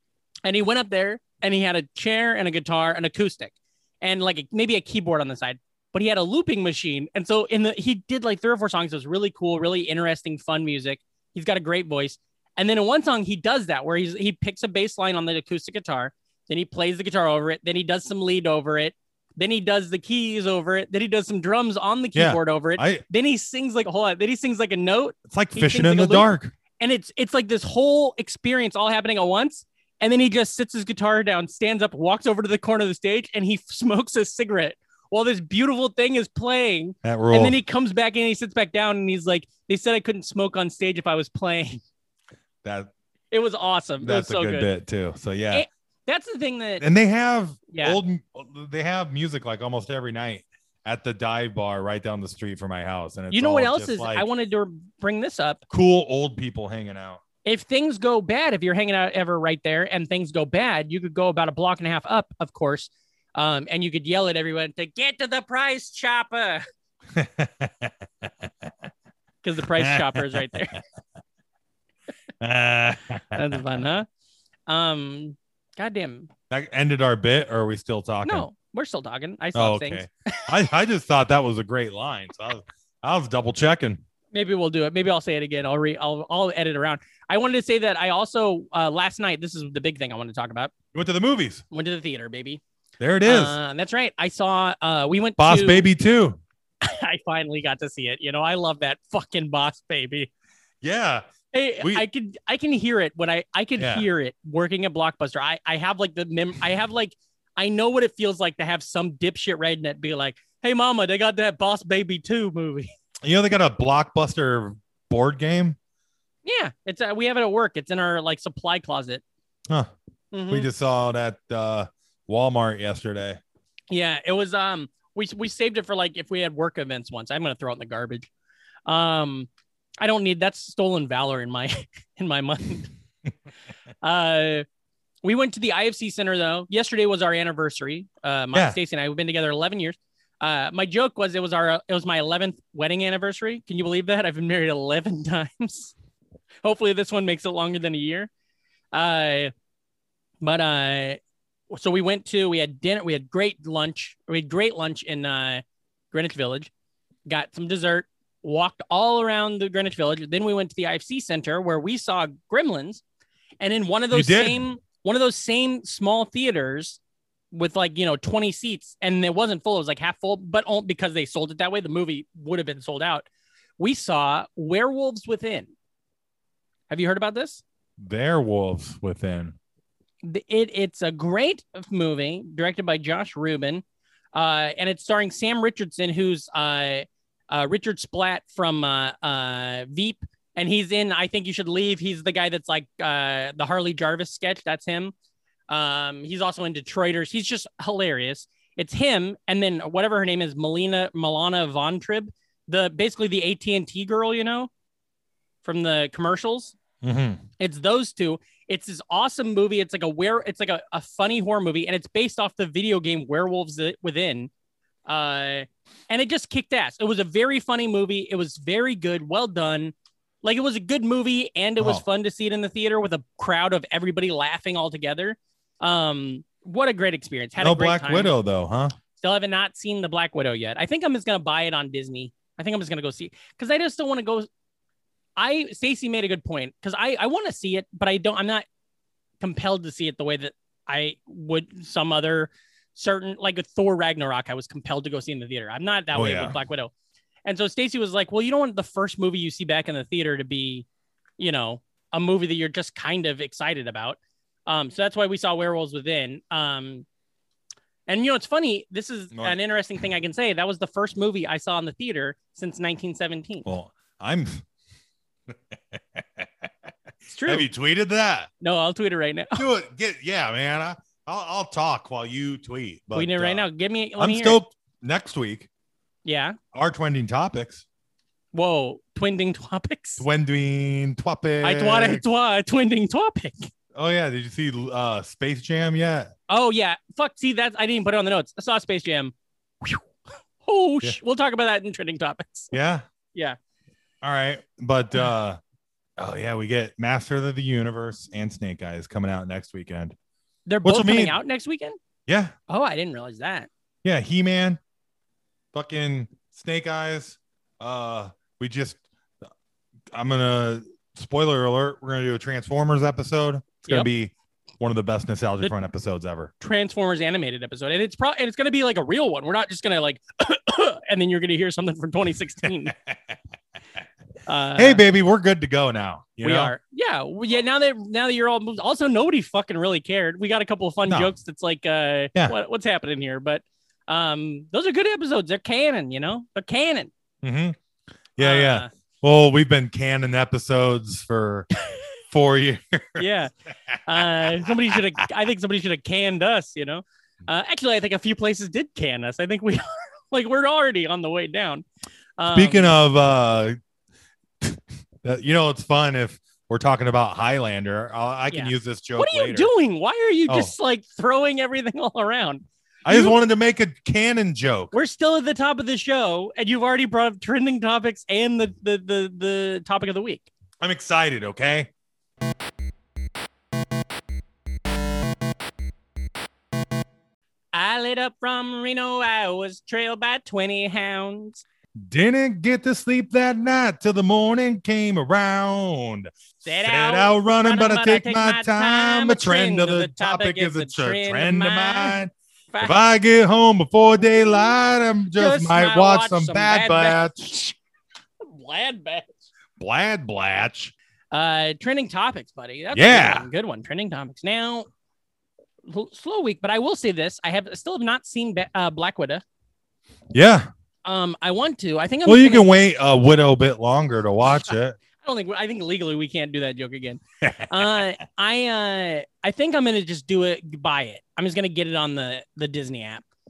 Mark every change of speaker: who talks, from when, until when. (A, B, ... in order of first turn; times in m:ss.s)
0:00.4-0:41.8 A
0:22.1-0:23.0 B
0:25.3-0:26.5 B
0:37.0-0:37.6 B
0:42.6-0:42.9 B
0:43.3-0:44.7 A
0:44.0-0:45.7 B
0:45.5-0:46.8 A
0:46.8-0:54.3 B
0:47.7-0:48.0 A
0:53.3-0:55.6 A
0:55.7-0:57.2 B
0:57.4-1:06.6 A
1:07.1-1:08.7 B
1:09.4-1:10.8 A
1:09.8-1:10.4 B
1:12.4-1:13.6 B
1:13.3-1:14.1 A
1:14.7-1:16.3 A
1:16.5-1:18.5 B
1:18.2-1:20.5 A
1:19.6-1:24.0 B
1:24.3-1:30.7 A
1:30.9-1:31.6 B
1:31.7-1:32.6 A
1:33.0-1:33.6 B
1:33.2-1:35.9 A
1:35.4-1:36.4 B
1:36.8-1:40.3 A
1:40.8-1:41.3 B
1:41.5-1:52.9 A
1:41.8-1:42.1 B
1:43.8-1:44.1 B
1:53.2-1:55.8 B
1:56.4-1:59.2 A
2:00.3-2:00.7 A
2:00.5-2:03.4 B
2:03.9-2:08.3 A
2:08.9-2:09.5 A
2:10.0-2:12.9 A
2:14.0-2:14.6 A
2:15.2-2:25.9 A
2:26.6-2:28.3 A
2:28.9-2:29.5 A
2:30.4-2:31.2 A
2:31.7-2:36.7 A
2:37.3-2:43.0 A
2:43.6-2:47.0 A
2:44.1-2:44.6 B
2:47.5-2:53.2 A
2:53.8-2:55.7 A
2:56.9-2:57.6 A
2:58.0-2:59.6 B
3:00.2-3:03.8 A
3:04.3-3:15.1 A
3:15.7-3:24.7 A
3:25.6-3:26.8 A
3:27.0-3:27.4 B
3:27.6-3:34.5 A
3:35.1-3:48.3 A
3:47.6-3:48.9 B
3:49.2-3:54.5 A
3:55.4-3:58.6 A
3:59.4-4:06.9 A
4:06.1-4:06.6 B
4:07.4-4:10.9 A
4:11.4-4:17.1 A
4:18.1-4:23.7 A
4:23.6-4:24.6 B
4:25.7-4:26.7 B
4:27.3-4:27.7 A
4:27.4-4:28.5 B
4:28.6-4:29.6 A
4:29.6-4:33.7 B
4:33.1-4:34.6 A
4:34.2-4:35.7 B
4:36.2-4:36.6 A
4:36.7-4:37.8 B
4:38.5-4:40.2 A
4:40.2-4:42.2 B
4:41.6-4:43.7 A
4:43.9-4:46.3 B
4:46.5-4:50.0 A
4:50.6-4:52.7 A
4:52.7-4:53.0 B
4:54.2-4:55.6 B
4:56.2-5:00.1 B
5:00.7-5:02.0 A
5:00.8-5:01.4 B
5:02.3-5:02.5 B
5:02.7-5:03.7 A
5:04.0-5:04.8 B
5:05.7-5:09.0 B
5:10.1-5:16.5 B
5:16.6-5:22.9 A
5:22.9-5:23.3 B
5:24.4-5:25.0 A
5:24.8-5:26.7 B
5:26.4-5:37.1 A
5:31.1-5:31.3 B
5:37.4-5:37.8 B
5:38.4-5:41.7 B
5:38.4-5:38.9 A
5:42.3-5:43.2 B
5:43.2-5:43.5 A
5:43.9-5:45.0 B
5:44.1-5:51.8 A
5:52.4-5:52.9 A
5:52.5-5:53.8 B
5:54.6-5:59.7 B
5:58.5-6:03.4 A
6:03.0-6:04.9 B
6:04.9-6:10.5 A
6:10.8-6:11.9 B
6:17.7-6:21.6 A
6:22.0-6:37.6 B
6:26.6-6:32.2 A
6:32.7-6:33.0 A
6:35.4-6:37.7 A
6:38.4-6:39.4 A
6:39.8-6:40.9 B
6:41.3-6:44.9 A
6:42.9-6:43.5 B
6:45.8-6:49.4 A
6:50.3-6:50.7 B
6:51.0-6:52.7 A
6:52.2-6:55.0 B
6:55.2-7:03.2 A
6:57.4-6:58.0 B